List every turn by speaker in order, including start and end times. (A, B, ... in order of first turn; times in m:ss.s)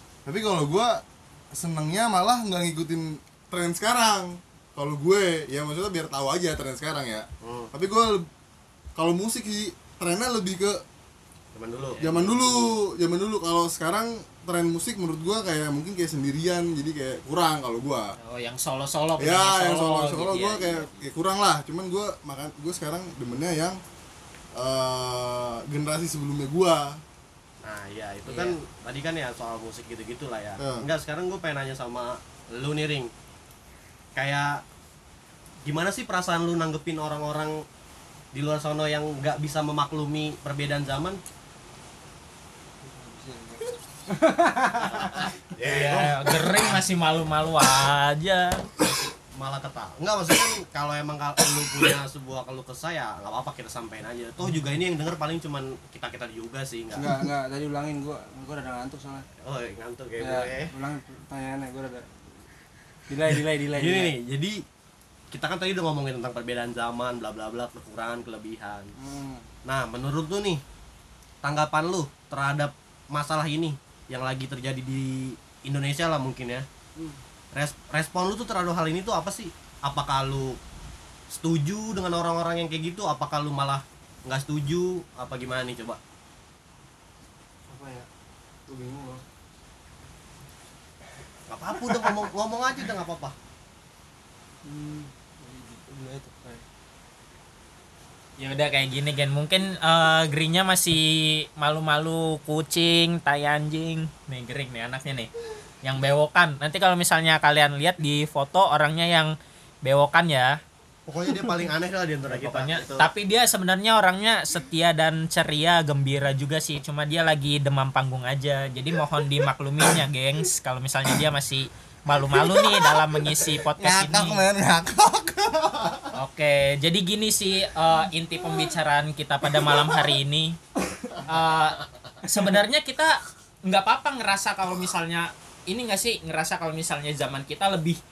0:00.3-0:01.0 A
0:01.5-0:08.3 A
0:07.4-0:07.7 B
0:09.0-0:10.8 A
0:11.5-0:12.0 B
0:12.0-0:12.5 C
0:12.0-0:18.1 A
0:18.2-0:21.1 C
0:19.2-0:23.8 A
0:24.5-0:27.0 A
0:27.6-0:33.1 B
0:28.3-0:28.6 C
0:30.6-0:30.9 A
0:34.2-0:34.6 B
0:35.6-0:37.6 B
0:38.3-0:41.2 B
0:42.8-0:45.3 D
0:44.8-0:46.8 B
0:44.8-0:49.0 C
0:49.4-0:57.2 B
0:56.9-0:59.2 D
0:59.4-1:00.7 B
1:00.2-1:02.4 D
1:03.1-1:04.1 D
1:03.7-1:04.6 B
1:05.3-1:08.9 B
1:09.0-1:09.5 D
1:09.7-1:10.6 B
1:11.4-1:16.7 B
1:17.5-1:20.6 B
1:21.3-1:26.0 B
1:27.7-1:28.1 D
1:28.7-1:29.2 D
1:31.5-1:33.3 B
1:34.6-1:36.6 D
1:38.4-1:45.3 C
1:45.8-1:50.6 C
1:51.1-1:53.1 B
1:52.3-2:04.4 C
2:02.1-2:06.1 A
2:06.2-2:10.6 C
2:09.6-2:09.9 A
2:11.2-2:18.0 C